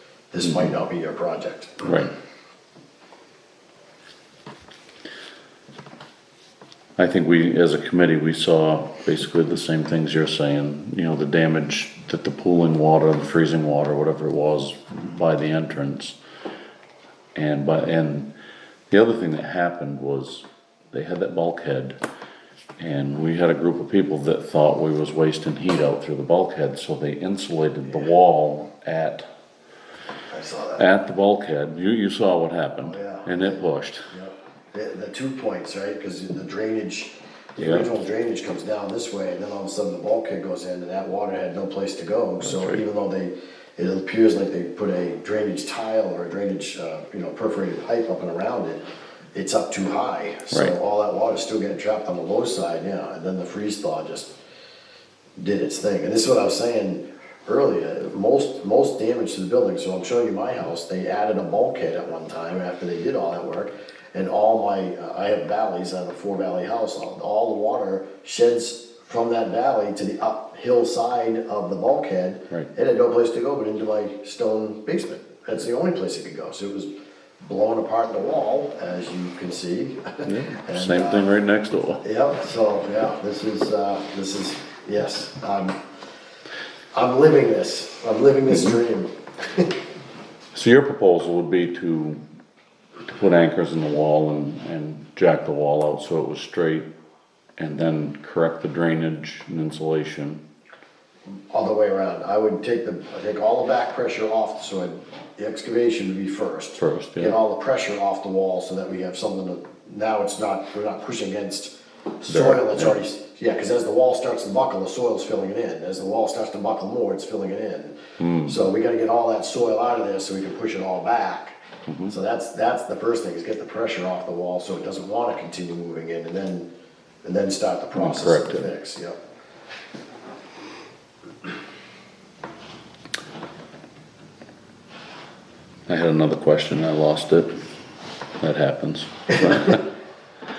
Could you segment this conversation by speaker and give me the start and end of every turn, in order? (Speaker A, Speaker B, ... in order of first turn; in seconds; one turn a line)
Speaker A: 0.3-2.0
Speaker B: 1.8-2.1
Speaker B: 7.0-16.1
Speaker B: 17.3-18.3
Speaker B: 18.9-22.0
Speaker B: 22.8-29.2
Speaker A: 30.3-30.8
Speaker B: 30.8-34.1
Speaker A: 32.8-48.8
Speaker B: 37.6-37.9
Speaker B: 42.4-42.8
Speaker A: 49.3-54.3
Speaker A: 55.4-76.9
Speaker A: 77.4-81.4
Speaker B: 80.2-82.0
Speaker A: 82.0-85.8
Speaker A: 86.9-89.7
Speaker B: 90.5-92.2
Speaker B: 93.1-96.9
Speaker B: 97.6-100.4
Speaker A: 101.5-126.7
Speaker B: 106.8-107.3
Speaker B: 112.3-112.9
Speaker B: 118.2-118.6
Speaker B: 121.9-122.1
Speaker A: 127.2-129.2
Speaker B: 127.9-128.7
Speaker B: 135.9-137.5
Speaker B: 138.4-139.8